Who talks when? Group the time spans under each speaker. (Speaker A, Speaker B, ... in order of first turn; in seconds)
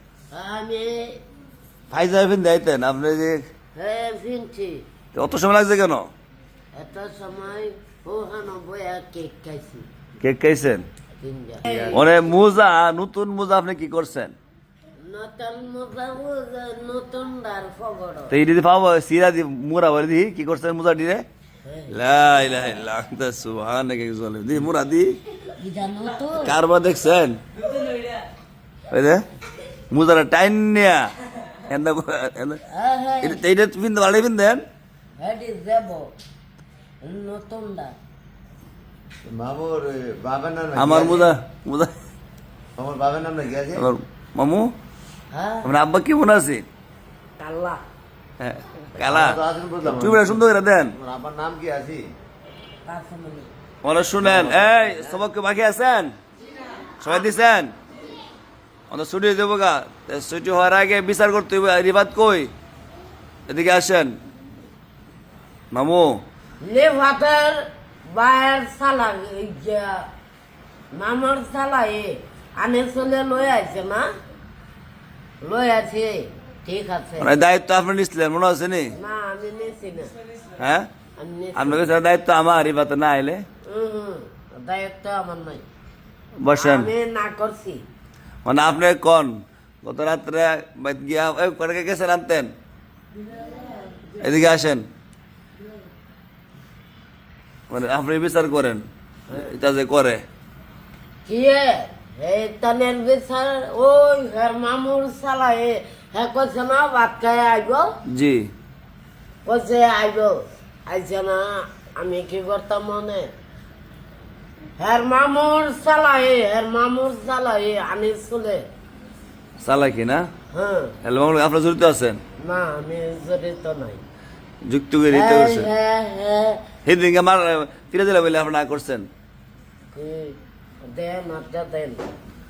Speaker A: 0.3-1.2, 3.8-4.8, 6.8-9.9, 11.2-12.2, 15.0-18.4, 21.6-21.9, 25.6-26.6, 32.7-33.4, 35.2-36.1, 37.0-38.0, 45.3-45.7, 47.4-47.8, 52.9-53.5, 66.6-70.1, 70.9-74.1, 75.4-77.3, 79.0-80.1, 81.2-81.8, 83.7-85.6, 86.5-87.8, 101.3-107.9, 109.5-113.3, 114.8-118.7, 120.5-121.0, 122.4-124.0, 125.1-126.6, 129.9-132.1
Speaker B: 1.9-3.4, 5.1-6.1, 10.2-10.8, 11.9-14.3, 18.3-21.2, 21.9-25.2, 26.4-27.4, 28.9-29.2, 29.9-31.1, 31.7-32.6, 33.2-34.6, 40.8-41.9, 43.8-44.7, 45.6-46.6, 48.4-51.0, 53.8-56.1, 57.0-57.7, 58.9-62.5, 63.5-64.2, 65.7-66.2, 77.2-79.0, 80.6-80.9, 81.5-83.4, 86.4-86.9, 88.5-92.5, 94.2-94.9, 97.7-100.2, 108.1-108.5, 119.6-120.3, 121.0-122.2, 124.7-125.7, 126.8-129.1
Speaker C: 11.7-12.0, 39.2-41.3, 42.8-43.9, 49.0-50.4, 51.0-52.1, 54.2-55.1